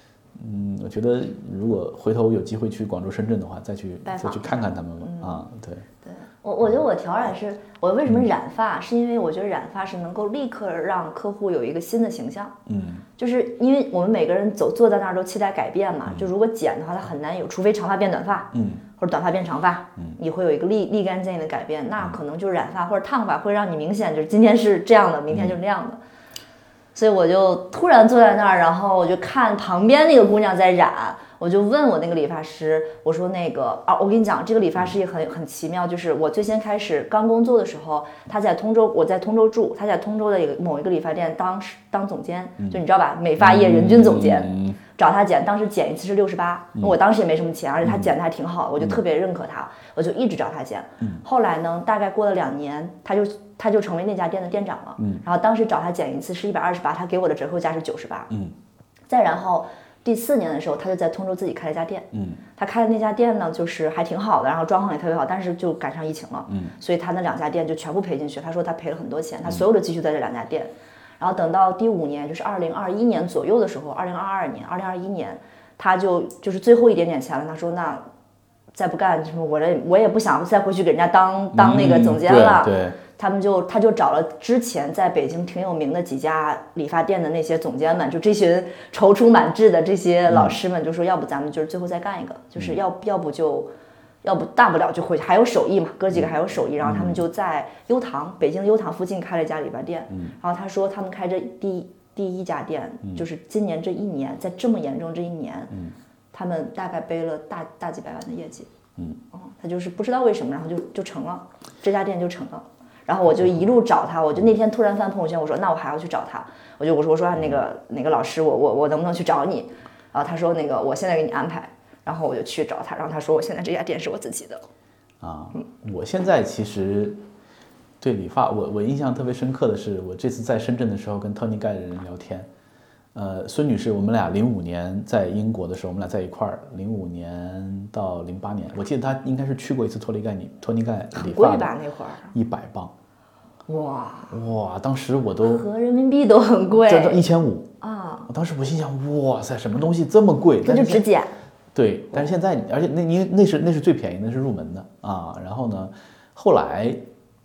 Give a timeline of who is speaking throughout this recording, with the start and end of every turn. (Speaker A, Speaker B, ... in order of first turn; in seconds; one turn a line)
Speaker A: 0.3-5.8
Speaker B: 4.0-5.4
Speaker B: 6.0-12.6
Speaker A: 12.7-13.0
Speaker B: 13.2-26.0
Speaker A: 18.5-18.8
Speaker A: 25.3-25.6
Speaker B: 26.9-58.3
Speaker A: 43.4-44.8
Speaker A: 47.8-48.1
Speaker B: 59.1-78.0
Speaker A: 62.1-62.4
Speaker A: 66.5-66.7
Speaker B: 78.7-93.7
Speaker A: 81.5-83.0
Speaker A: 90.3-90.5
Speaker B: 94.2-105.7
Speaker A: 96.1-97.2
Speaker A: 100.1-100.3
Speaker B: 106.3-108.7
Speaker B: 109.3-124.6
Speaker A: 117.3-117.6
Speaker A: 125.2-127.2
Speaker A: 128.0-132.5
Speaker A: 133.1-141.8
Speaker B: 141.1-142.3
Speaker A: 142.3-142.9
Speaker B: 143.7-144.3
Speaker A: 144.3-145.7
Speaker B: 145.4-147.3
Speaker A: 146.8-147.7
Speaker B: 147.8-148.3
Speaker A: 148.3-151.1
Speaker B: 150.6-151.3
Speaker A: 151.7-157.0